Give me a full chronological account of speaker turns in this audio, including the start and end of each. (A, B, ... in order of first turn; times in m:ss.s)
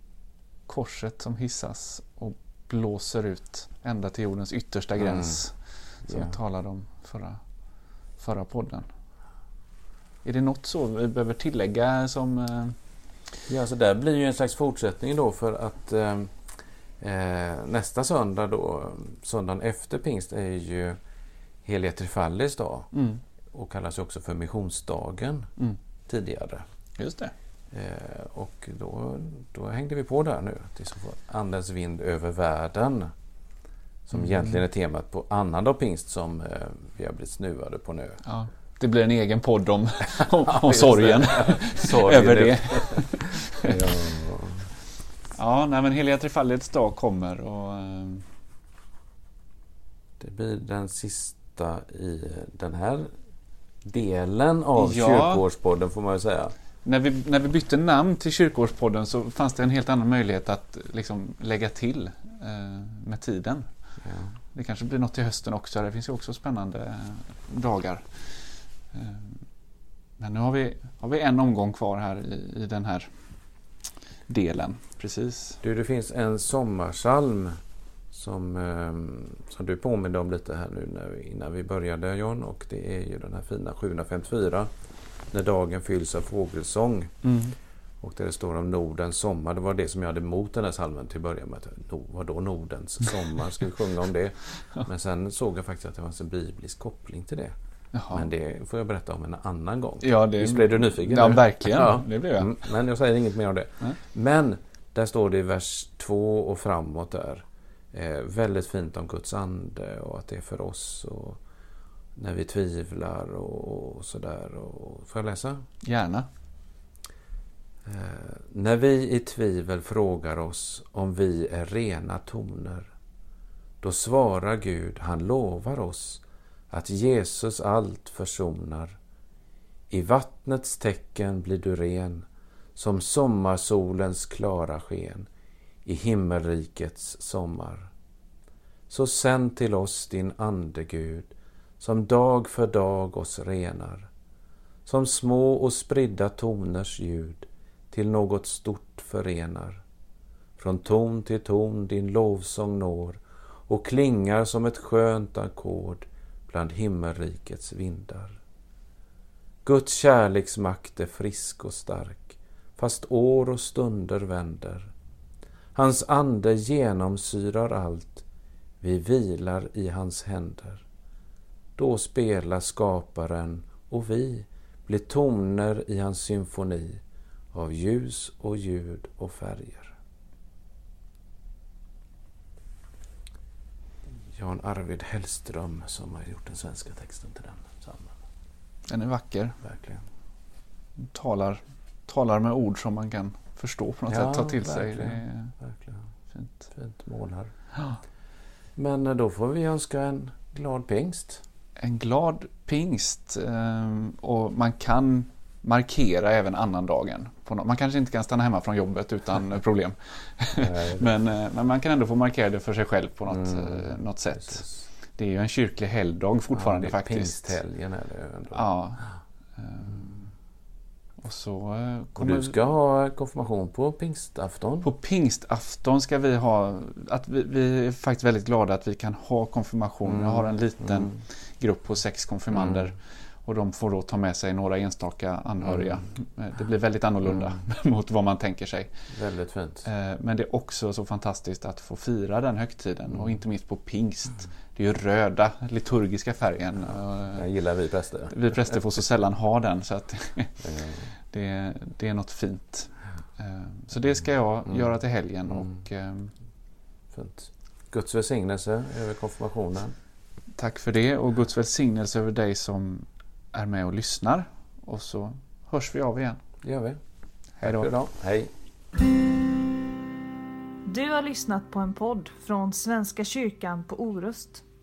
0:00.7-0:07.4 A
0:05.0-0:05.4 B
0:06.1-0:06.4 B
0:08.2-0:08.9 A
0:10.2-0:12.8 A
0:13.5-0:21.0 B
0:21.6-0:22.9 B
0:22.9-0:23.2 A
0:23.5-0:25.5 B
0:26.1-0:26.7 B
0:27.0-0:27.3 A
0:27.7-0:33.1 B
0:34.1-0:38.2 B
0:38.2-0:43.9 A
0:40.2-0:44.7 B
0:45.3-0:48.3 A
0:50.2-0:53.1 B
0:53.8-0:56.6 B
0:54.8-0:55.4 A
0:56.8-1:03.7 A
1:04.0-1:04.4 B
1:04.5-1:09.4 A
1:10.2-1:13.2 A
1:14.3-1:15.6 A
1:15.6-1:17.6 B
1:18.1-1:24.7 B
1:25.3-1:27.2 B
1:27.2-1:27.6 A
1:28.0-1:37.6 B
1:37.9-1:38.3 A
1:38.1-1:51.4 B
1:40.0-1:42.6 A
1:52.2-1:55.7 B
1:55.8-1:56.3 A
1:57.8-2:02.9 B
2:03.8-2:09.0 B
2:09.9-2:15.3 B
2:15.8-2:17.9 B
2:18.9-2:24.1 B
2:24.9-2:29.8 B
2:30.6-2:38.4 B
2:39.6-2:44.9 B
2:45.8-2:48.2 B
2:48.8-2:50.8 B
2:51.8-2:57.0 B
2:57.5-3:00.0 B
3:04.3-3:08.2 B
3:08.9-3:09.6 A
3:09.6-3:10.0 B
3:11.0-3:15.6 A
3:14.1-3:16.0 B
3:16.3-3:16.6 A
3:16.7-3:17.5 B
3:18.8-3:21.4 B
3:21.8-3:37.6 A
3:30.6-3:31.1 B
3:33.3-3:34.8 B
3:36.5-3:38.6 B
3:38.5-3:40.3 A
3:41.2-3:42.5 A
3:42.2-3:44.9 B
3:44.8-3:58.9 A
3:50.2-3:51.2 B
3:59.1-3:59.9 B
3:59.8-4:07.5 A
4:07.3-4:08.8 B
4:08.3-4:16.3 A
4:10.6-4:11.1 B
4:17.1-4:20.0 B
4:20.6-4:26.4 A
4:26.6-4:27.0 B
4:27.6-4:27.9 A
4:27.6-4:28.5 B
4:30.9-4:34.6 C